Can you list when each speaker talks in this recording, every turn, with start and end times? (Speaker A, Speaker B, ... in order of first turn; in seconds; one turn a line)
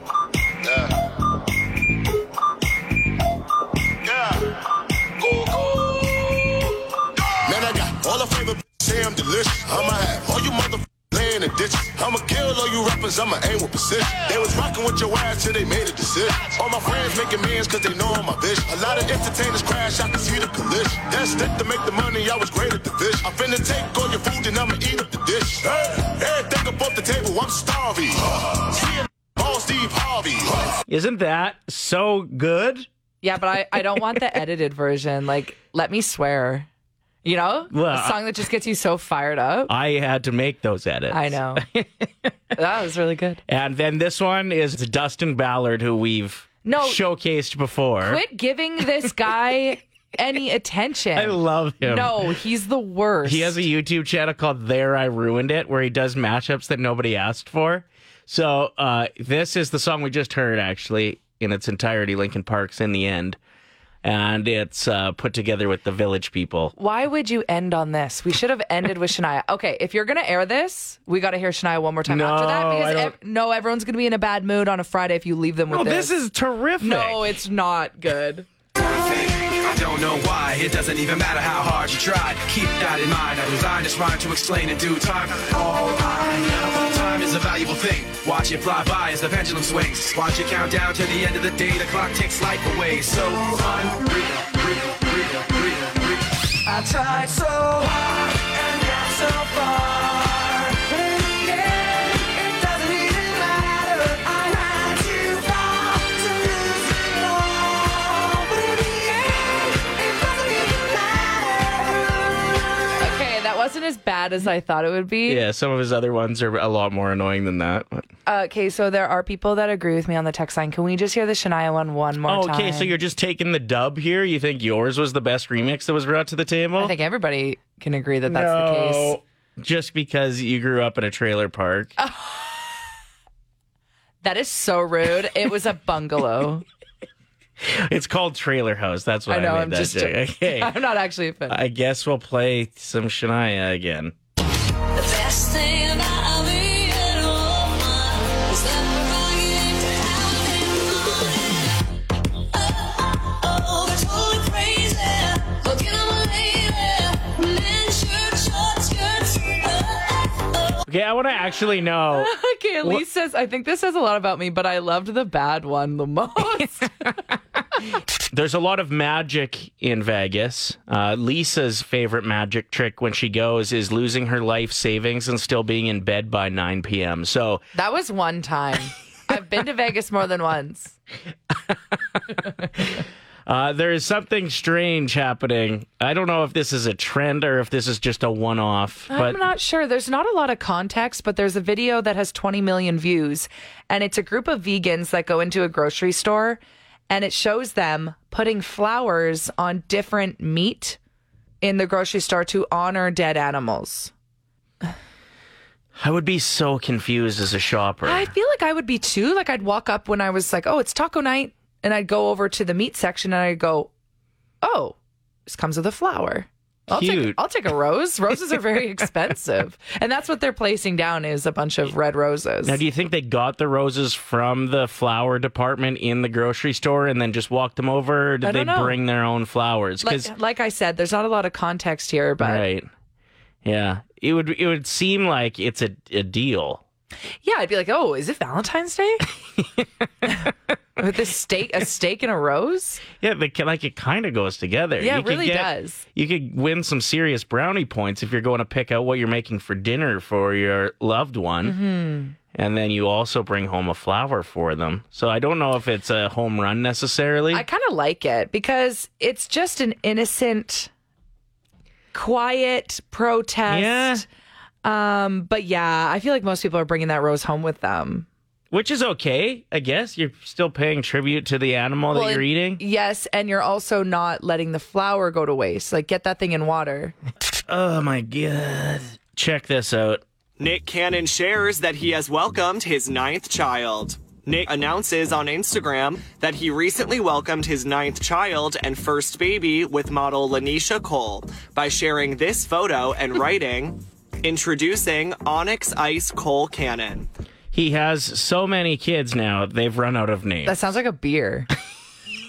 Speaker A: 0.6-1.0
Speaker A: 4.0-4.6
Speaker A: 5.2-6.4
Speaker A: 7.5-30.8
Speaker B: 30.9-32.9
Speaker C: 33.2-36.7
Speaker C: 37.2-39.7
Speaker B: 37.7-38.2
Speaker B: 39.7-42.3
Speaker C: 41.1-41.6
Speaker C: 42.5-43.4
Speaker B: 43.5-48.2
Speaker C: 46.6-47.0
Speaker C: 48.0-53.6
Speaker B: 51.1-52.4
Speaker B: 53.2-63.4
Speaker B: 64.0-66.7
Speaker C: 66.8-76.1
Speaker B: 72.1-73.2
Speaker B: 75.7-77.3
Speaker C: 76.8-78.5
Speaker D: 78.8-96.2
Speaker C: 96.7-97.7
Speaker D: 97.7-100.5
Speaker C: 101.4-101.8
Speaker C: 102.3-105.4
Speaker C: 106.1-106.7
Speaker C: 110.4-110.8
Speaker C: 113.0-115.4
Speaker B: 115.3-118.0
Speaker C: 118.3-122.9
Speaker B: 122.3-126.9
Speaker C: 126.8-129.2
Speaker B: 128.3-131.9
Speaker C: 132.0-132.7
Speaker C: 134.2-136.6
Speaker B: 137.6-140.7
Speaker C: 139.3-141.6
Speaker B: 141.5-144.1
Speaker E: 144.9-151.7
Speaker E: 152.6-160.2
Speaker B: 160.9-163.0
Speaker C: 162.1-167.2
Speaker B: 168.3-177.7
Speaker C: 177.8-181.0
Speaker B: 181.5-182.0
Speaker B: 182.8-189.4
Speaker C: 189.1-201.0
Speaker C: 201.6-204.1
Speaker B: 206.0-208.3
Speaker C: 208.1-213.9
Speaker C: 214.6-222.8
Speaker B: 216.9-217.4
Speaker B: 222.6-230.3
Speaker C: 228.4-229.0
Speaker C: 230.0-232.6
Speaker B: 232.4-232.9
Speaker B: 233.6-236.8
Speaker C: 237.4-239.3
Speaker C: 241.0-243.0
Speaker B: 243.2-251.8
Speaker C: 245.0-246.0
Speaker C: 251.6-252.4
Speaker B: 252.5-257.7
Speaker C: 257.5-260.9
Speaker C: 262.1-264.2
Speaker B: 263.7-264.2
Speaker C: 264.8-268.3
Speaker B: 268.7-272.8
Speaker C: 272.1-277.1
Speaker B: 277.6-280.2
Speaker F: 280.6-297.3
Speaker B: 297.7-300.8
Speaker C: 300.7-301.7